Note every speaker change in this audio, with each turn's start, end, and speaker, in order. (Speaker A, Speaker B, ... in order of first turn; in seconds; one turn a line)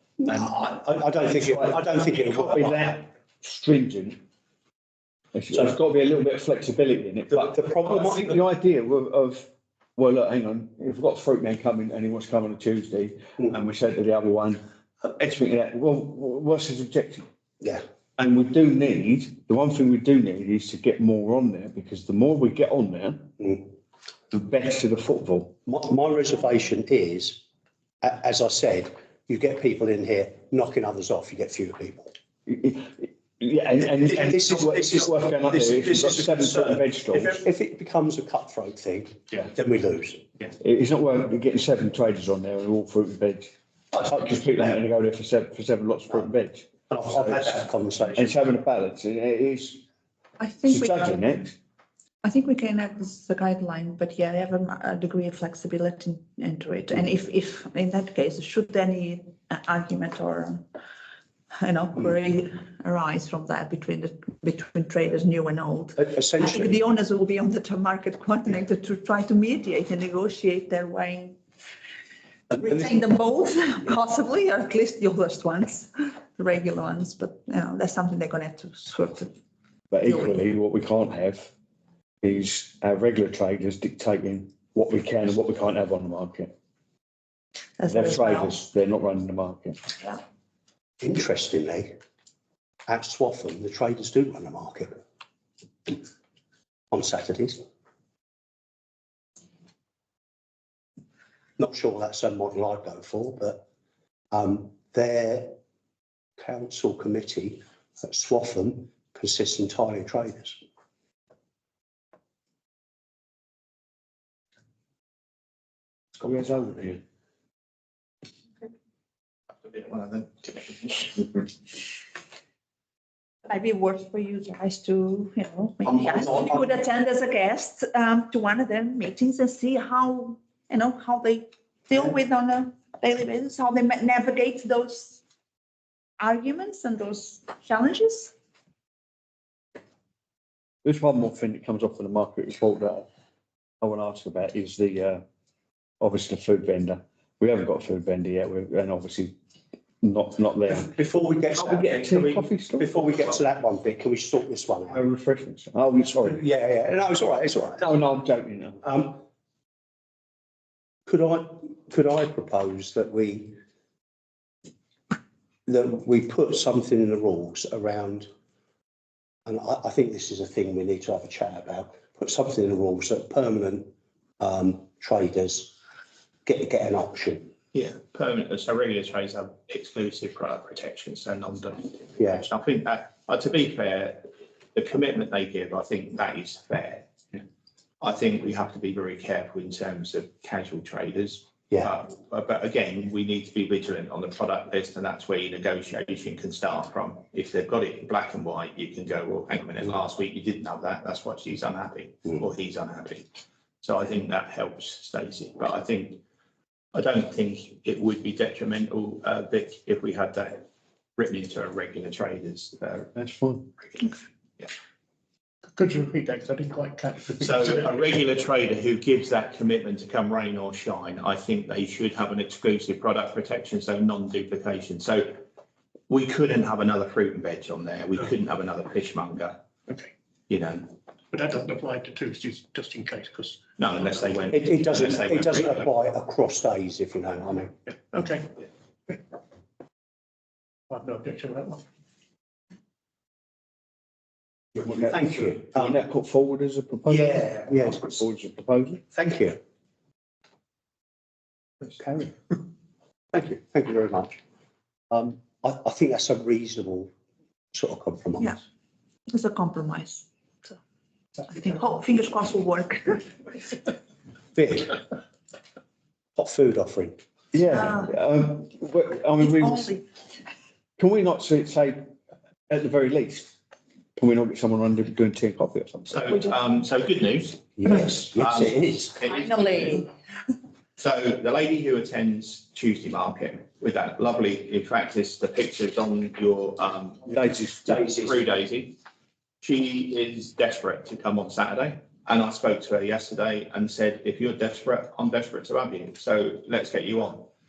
Speaker A: 0.2-2.9
Speaker B: 1.4-4.2
Speaker B: 5.3-17.2
Speaker A: 7.3-8.4
Speaker B: 18.2-23.4
Speaker B: 24.3-25.6
Speaker A: 25.6-27.4
Speaker A: 28.0-32.1
Speaker B: 32.5-37.4
Speaker A: 34.1-40.3
Speaker B: 40.6-47.5
Speaker A: 43.9-44.8
Speaker A: 46.9-48.4
Speaker B: 48.1-49.8
Speaker C: 50.4-51.2
Speaker B: 50.7-51.5
Speaker C: 52.2-60.6
Speaker C: 61.6-71.4
Speaker A: 66.0-66.8
Speaker A: 72.5-72.9
Speaker C: 72.6-79.3
Speaker B: 79.9-81.5
Speaker C: 80.0-80.4
Speaker B: 82.2-86.5
Speaker C: 87.8-88.6
Speaker B: 87.8-89.8
Speaker A: 91.0-91.9
Speaker A: 92.9-95.0
Speaker A: 96.9-97.6
Speaker A: 101.6-103.6
Speaker A: 104.3-105.6
Speaker A: 106.4-110.6
Speaker B: 116.2-117.0
Speaker D: 119.6-121.1
Speaker C: 123.5-135.2
Speaker A: 125.8-126.7
Speaker C: 136.2-138.3
Speaker B: 140.8-143.1
Speaker B: 143.8-145.2
Speaker B: 146.0-149.3
Speaker B: 150.0-150.9
Speaker A: 150.7-155.0
Speaker B: 151.6-152.9
Speaker B: 154.9-156.4
Speaker A: 156.2-157.8
Speaker B: 157.8-158.8
Speaker A: 158.8-159.2
Speaker A: 161.1-163.6
Speaker A: 165.7-168.3
Speaker A: 169.4-175.8
Speaker A: 176.4-177.5
Speaker D: 177.7-187.1
Speaker A: 182.2-182.5
Speaker D: 188.0-203.3
Speaker D: 203.8-206.2
Speaker D: 206.9-210.6
Speaker D: 211.2-213.1
Speaker B: 213.2-213.7
Speaker D: 213.8-214.7
Speaker E: 215.8-218.0
Speaker D: 217.4-225.4
Speaker D: 226.1-229.6
Speaker D: 230.5-230.9
Speaker E: 231.3-233.6
Speaker D: 233.8-235.9
Speaker A: 234.5-237.7
Speaker E: 237.9-238.5
Speaker E: 240.9-241.8
Speaker A: 244.8-245.9
Speaker B: 244.9-249.0
Speaker A: 247.1-248.2
Speaker A: 249.1-249.6
Speaker A: 252.0-252.3
Speaker A: 253.3-254.4
Speaker A: 255.1-257.1
Speaker A: 257.7-258.6
Speaker C: 259.3-260.8
Speaker C: 261.4-263.8
Speaker A: 264.5-265.0
Speaker A: 266.4-267.2
Speaker B: 267.5-270.0
Speaker C: 269.4-270.0
Speaker B: 271.0-272.1
Speaker B: 272.7-273.5
Speaker B: 274.1-276.3
Speaker D: 276.1-280.1
Speaker A: 277.8-279.2
Speaker C: 279.3-280.1
Speaker D: 281.0-289.0
Speaker B: 287.3-288.0
Speaker D: 289.6-297.5